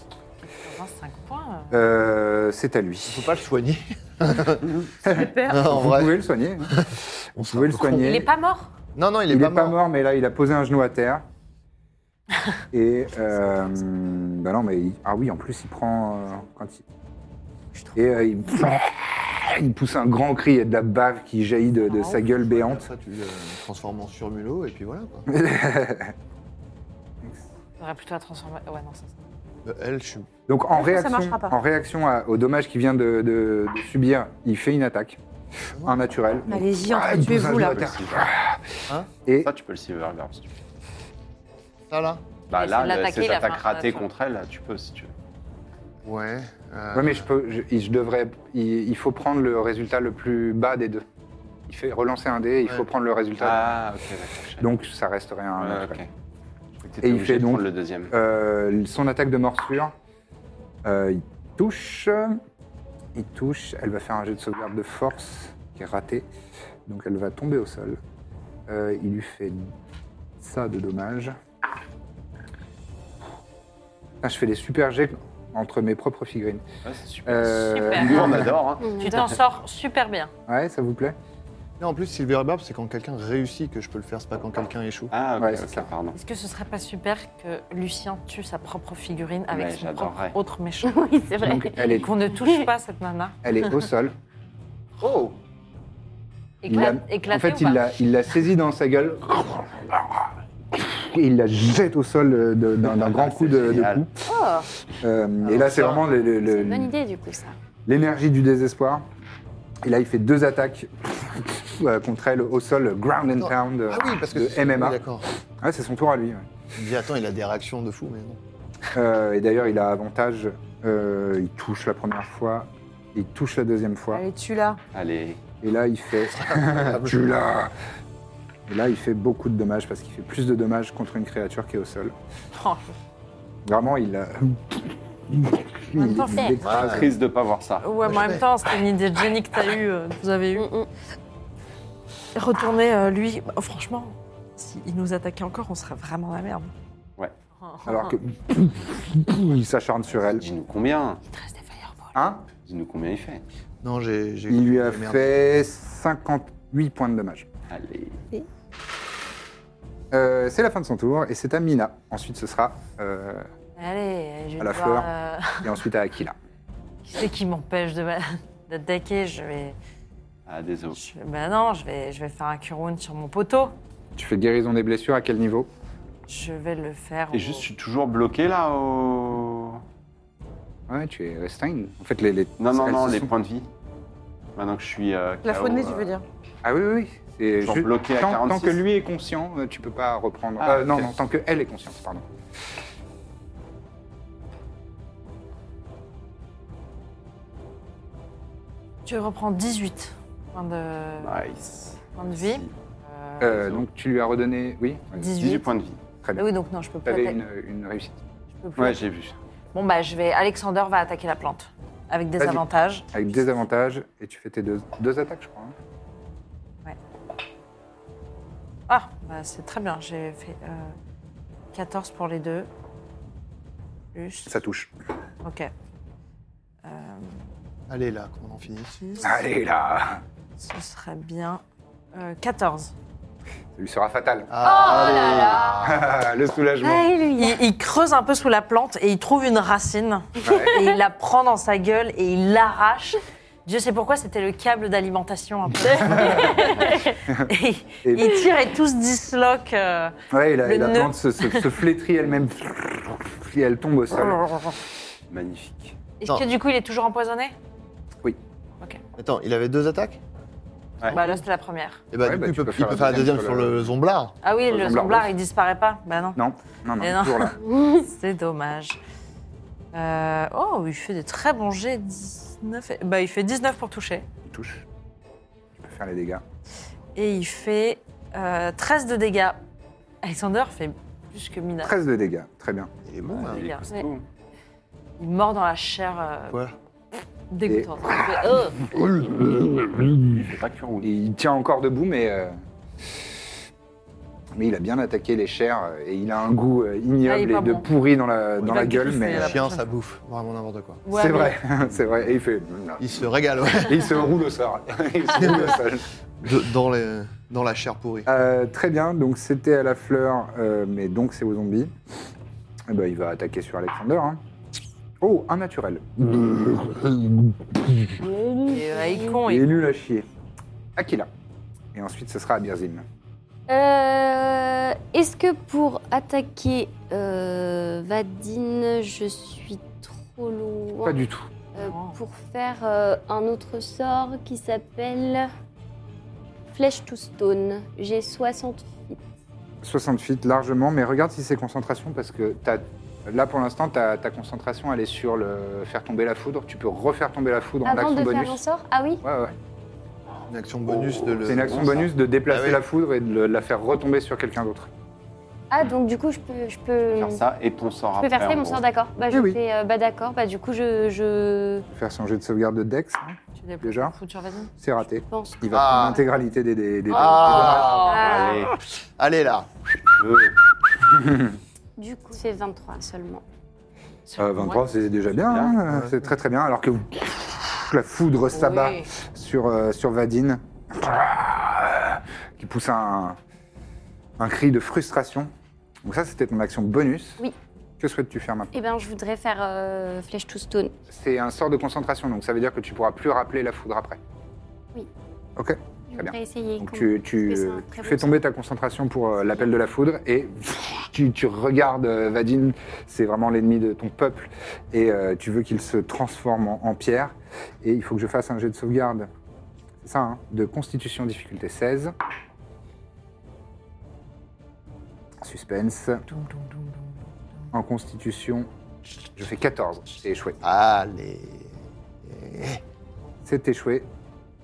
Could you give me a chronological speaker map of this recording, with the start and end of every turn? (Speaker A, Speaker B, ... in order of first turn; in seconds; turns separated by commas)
Speaker A: 0.4-1.9, Speaker B: 1.7-3.3, Speaker C: 3.1-6.2, Speaker D: 5.1-5.7, Speaker B: 5.1-6.8, Speaker C: 6.7-8.2, Speaker B: 7.4-8.3, Speaker A: 8.0-8.7, Speaker C: 8.9-9.8, Speaker B: 9.3-11.2, Speaker B: 12.7-16.8, Speaker B: 17.9-22.9, Speaker A: 21.8-22.2, Speaker C: 22.3-25.3, Speaker B: 25.3-26.1, Speaker A: 27.8-29.2, Speaker C: 29.6-30.3, Speaker B: 30.5-35.2, Speaker D: 30.7-31.6, Speaker C: 35.7-36.0, Speaker B: 35.8-39.5, Speaker D: 36.5-37.9, Speaker E: 37.4-38.3, Speaker E: 39.4-40.5, Speaker C: 41.9-42.2, Speaker E: 42.5-45.1, Speaker A: 42.5-44.1, Speaker C: 46.0-47.3, Speaker B: 46.9-51.0, Speaker B: 51.7-53.8, Speaker E: 53.4-54.7, Speaker B: 54.6-56.0, Speaker E: 55.6-56.1, Speaker E: 56.8-58.1, Speaker B: 57.0-59.9, Speaker B: 60.8-62.4, Speaker B: 63.1-66.3, Speaker B: 66.9-68.0, Speaker B: 68.7-69.8, Speaker B: 70.4-71.4, Speaker B: 74.2-76.6, Speaker E: 76.8-79.0, Speaker B: 77.3-78.5, Speaker A: 77.6-78.4, Speaker F: 78.8-79.2, Speaker A: 79.0-80.3, Speaker B: 80.5-81.2, Speaker C: 81.8-85.1, Speaker E: 85.1-86.2, Speaker B: 85.4-85.9, Speaker A: 86.1-91.0, Speaker E: 89.5-90.4, Speaker F: 90.8-92.7, Speaker B: 91.4-92.1, Speaker A: 91.8-93.4, Speaker B: 93.4-94.2, Speaker B: 95.0-95.3, Speaker A: 96.6-97.9, Speaker B: 96.7-104.1, Speaker E: 102.8-104.0, Speaker A: 104.3-104.7, Speaker B: 105.0-106.9, Speaker C: 105.4-106.0, Speaker F: 106.4-107.6, Speaker B: 107.9-109.1, Speaker B: 109.8-115.0, Speaker C: 113.4-115.3, Speaker B: 115.6-116.5, Speaker C: 116.8-118.4, Speaker B: 118.9-124.2, Speaker D: 124.1-124.8, Speaker E: 124.9-125.4, Speaker B: 125.6-127.7, Speaker C: 126.4-127.3, Speaker B: 128.7-132.2, Speaker A: 132.5-132.9, Speaker B: 133.7-137.1, Speaker A: 136.0-136.6, Speaker F: 136.3-136.6, Speaker C: 136.6-137.1, Speaker E: 136.7-137.9, Speaker A: 137.8-140.7, Speaker C: 138.1-138.5, Speaker F: 140.6-140.9, Speaker A: 142.3-146.7, Speaker A: 147.6-148.1, Speaker B: 147.9-150.4, Speaker E: 150.2-151.2, Speaker A: 151.3-152.2, Speaker B: 152.2-152.5, Speaker E: 152.6-153.4, Speaker C: 153.8-155.4, Speaker B: 154.5-157.5, Speaker E: 157.7-158.2, Speaker B: 160.1-163.5, Speaker A: 163.8-165.8, Speaker B: 164.6-165.1, Speaker B: 165.6-166.4, Speaker A: 167.0-169.8, Speaker E: 170.5-171.0, Speaker A: 170.9-173.8, Speaker B: 174.2-175.7, Speaker A: 176.3-177.7, Speaker E: 177.3-179.8, Speaker B: 180.9-183.3, Speaker E: 182.6-183.7, Speaker E: 184.6-186.1, Speaker D: 185.4-186.2, Speaker B: 186.6-192.3, Speaker E: 187.6-188.8, Speaker E: 190.6-191.1, Speaker A: 199.1-201.4, Speaker E: 201.2-202.7, Speaker A: 202.1-203.6, Speaker B: 203.4-205.3, Speaker A: 205.2-205.7, Speaker E: 205.4-206.0, Speaker B: 206.2-206.5, Speaker A: 206.3-207.4, Speaker B: 207.1-208.2, Speaker A: 208.5-209.0, Speaker E: 208.8-209.4, Speaker A: 209.7-213.1, Speaker B: 212.4-215.8, Speaker A: 218.9-221.0, Speaker A: 221.7-222.7, Speaker A: 224.1-224.6, Speaker B: 224.5-224.9, Speaker A: 225.4-225.7, Speaker A: 226.8-227.5, Speaker C: 227.9-229.0, Speaker A: 229.0-229.4, Speaker B: 229.2-230.2, Speaker A: 230.6-231.6, Speaker A: 232.1-232.9, Speaker B: 233.8-234.5, Speaker C: 234.5-236.1, Speaker A: 234.6-235.8, Speaker B: 235.8-237.1, Speaker F: 236.8-237.6, Speaker A: 237.3-251.8, Speaker B: 240.4-240.8, Speaker B: 246.2-246.6, Speaker B: 248.0-248.5, Speaker B: 250.3-254.8, Speaker E: 255.3-255.9, Speaker A: 256.2-257.6, Speaker C: 259.2-260.2, Speaker A: 261.1-262.1, Speaker C: 262.1-264.4, Speaker B: 262.2-263.9, Speaker A: 264.4-266.4, Speaker B: 264.7-265.3, Speaker B: 266.4-267.6, Speaker A: 267.0-269.0, Speaker F: 267.7-268.0, Speaker A: 269.9-274.3, Speaker B: 274.5-274.9, Speaker B: 275.8-276.4, Speaker A: 277.1-279.6, Speaker A: 280.2-282.0, Speaker B: 281.8-282.9, Speaker C: 283.1-283.6, Speaker E: 283.2-284.2, Speaker A: 283.5-284.0, Speaker A: 285.2-286.6, Speaker A: 287.5-288.8, Speaker B: 287.7-292.6, Speaker E: 290.3-291.1, Speaker B: 294.5-299.6, Speaker A: 297.2-297.9, Speaker A: 298.6-300.0, Speaker C: 298.6-301.0, Speaker A: 301.1-301.6, Speaker B: 301.1-303.0, Speaker C: 303.0-304.1, Speaker B: 303.8-306.1, Speaker C: 305.3-305.8, Speaker C: 306.4-308.3, Speaker B: 308.3-311.9, Speaker B: 312.9-314.4, Speaker B: 315.2-318.2, Speaker F: 318.3-319.3, Speaker A: 318.7-319.8, Speaker B: 319.4-320.3, Speaker B: 321.0-321.3, Speaker B: 321.9-323.1, Speaker F: 323.7-331.2, Speaker B: 331.0-331.5, Speaker F: 331.8-335.5, Speaker A: 331.8-332.2, Speaker F: 336.7-339.2, Speaker B: 339.8-348.6, Speaker F: 347.8-349.2, Speaker B: 349.2-349.6, Speaker C: 350.5-352.8, Speaker E: 351.4-352.0, Speaker B: 351.4-354.9, Speaker F: 355.7-357.4, Speaker E: 357.1-358.8, Speaker F: 358.2-361.9, Speaker B: 359.3-359.6, Speaker B: 361.9-364.2, Speaker A: 363.6-364.7, Speaker B: 364.8-368.0, Speaker F: 365.3-366.2, Speaker C: 365.7-366.2, Speaker C: 367.1-368.5, Speaker A: 367.2-368.7, Speaker E: 368.1-368.7, Speaker C: 369.0-369.7, Speaker E: 370.1-370.6, Speaker B: 371.1-371.6, Speaker F: 372.0-373.4, Speaker A: 374.3-374.8, Speaker B: 374.4-383.4, Speaker E: 375.4-375.8, Speaker C: 375.9-376.3, Speaker A: 378.6-379.0, Speaker B: 384.4-385.5, Speaker B: 386.0-387.4, Speaker B: 388.0-388.7, Speaker F: 388.7-390.9, Speaker B: 391.1-394.2, Speaker B: 395.6-409.3, Speaker F: 396.1-398.4, Speaker B: 410.0-412.1, Speaker B: 415.4-416.2, Speaker A: 416.4-416.8, Speaker B: 417.7-418.7, Speaker B: 419.4-420.6, Speaker C: 420.6-421.7, Speaker C: 422.2-422.8, Speaker B: 423.4-424.1